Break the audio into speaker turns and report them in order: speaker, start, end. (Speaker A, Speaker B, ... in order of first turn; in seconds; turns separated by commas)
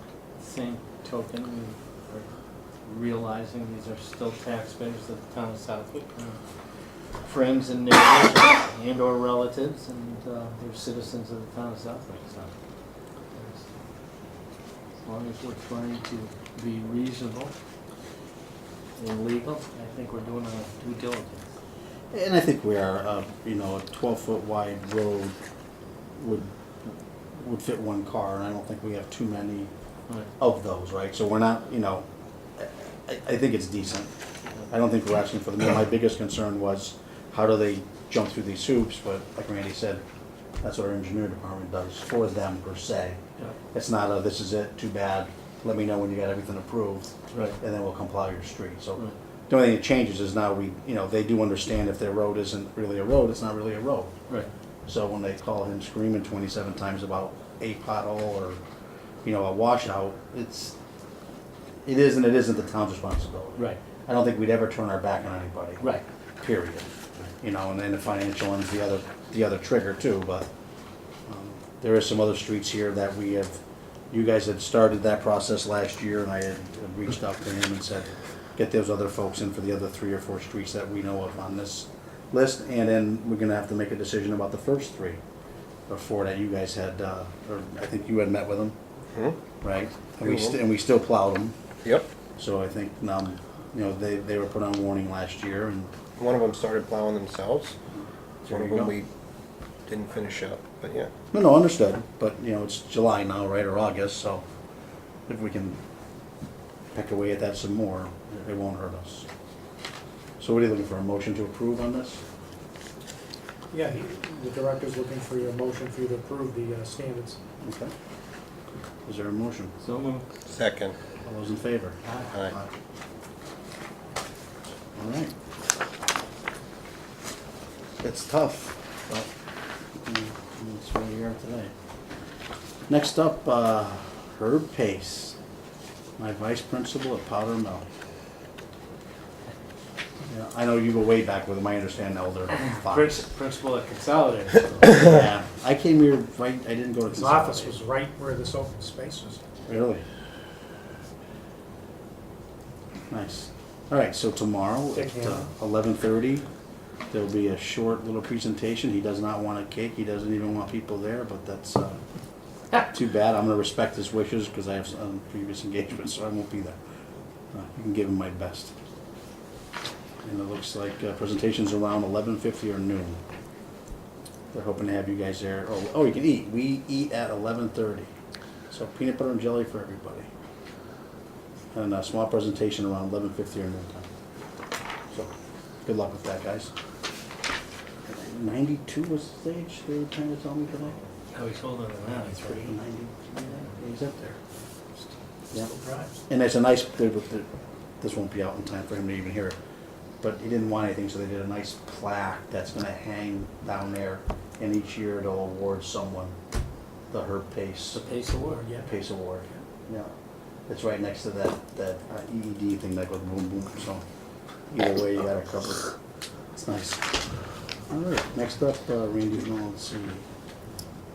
Speaker A: 0.4-2.3, Speaker A: 2.8-6.4, Speaker A: 7.2-12.5, Speaker A: 13.3-13.7, Speaker A: 15.0-17.5, Speaker A: 19.0-21.5, Speaker B: 22.1-25.4, Speaker B: 26.2-26.5, Speaker B: 27.4-29.7, Speaker B: 30.4-32.0, Speaker B: 32.6-34.1, Speaker B: 34.7-40.0, Speaker B: 40.6-43.2, Speaker B: 43.7-47.1, Speaker A: 47.3-47.6, Speaker B: 47.6-54.1, Speaker B: 54.9-58.6, Speaker B: 59.2-60.7, Speaker B: 61.8-65.8, Speaker B: 66.4-70.5, Speaker B: 71.3-73.6, Speaker B: 74.1-85.2, Speaker B: 85.9-88.8, Speaker C: 89.1-89.4, Speaker B: 89.6-91.5, Speaker C: 90.2-90.6, Speaker B: 92.4-95.9, Speaker C: 96.2-97.8, Speaker B: 98.4-98.9, Speaker C: 98.5-99.1, Speaker C: 99.9-101.1, Speaker B: 101.3-104.4, Speaker B: 105.3-105.8, Speaker B: 106.9-109.3, Speaker B: 110.4-112.2, Speaker D: 113.7-117.4, Speaker B: 117.6-117.9, Speaker B: 119.0-119.7, Speaker A: 119.8-120.2, Speaker C: 120.5-121.0, Speaker B: 121.2-122.7, Speaker A: 122.0-122.3, Speaker B: 124.9-125.3, Speaker B: 128.0-129.3, Speaker B: 130.0-131.7, Speaker B: 132.9-135.4, Speaker B: 136.2-137.8, Speaker B: 140.3-143.3, Speaker A: 142.6-145.0, Speaker B: 144.8-147.8, Speaker D: 147.1-149.4, Speaker B: 149.7-150.0, Speaker B: 153.1-156.5, Speaker D: 154.9-155.5, Speaker B: 157.1-162.0, Speaker B: 162.9-166.8, Speaker B: 167.5-168.7, Speaker B: 170.2-173.2, Speaker B: 174.5-178.1, Speaker B: 178.7-180.3, Speaker B: 181.7-184.1, Speaker B: 185.8-186.7, Speaker B: 188.1-191.0, Speaker A: 191.3-192.8, Speaker B: 192.3-194.4, Speaker D: 195.7-196.1, Speaker B: 196.3-197.5, Speaker B: 198.0-199.6, Speaker B: 200.2-206.3, Speaker B: 207.1-208.1, Speaker A: 207.9-208.7, Speaker D: 208.6-208.9, Speaker B: 208.9-210.1, Speaker B: 210.7-214.0, Speaker B: 214.7-215.9, Speaker B: 216.5-217.2, Speaker B: 217.9-220.2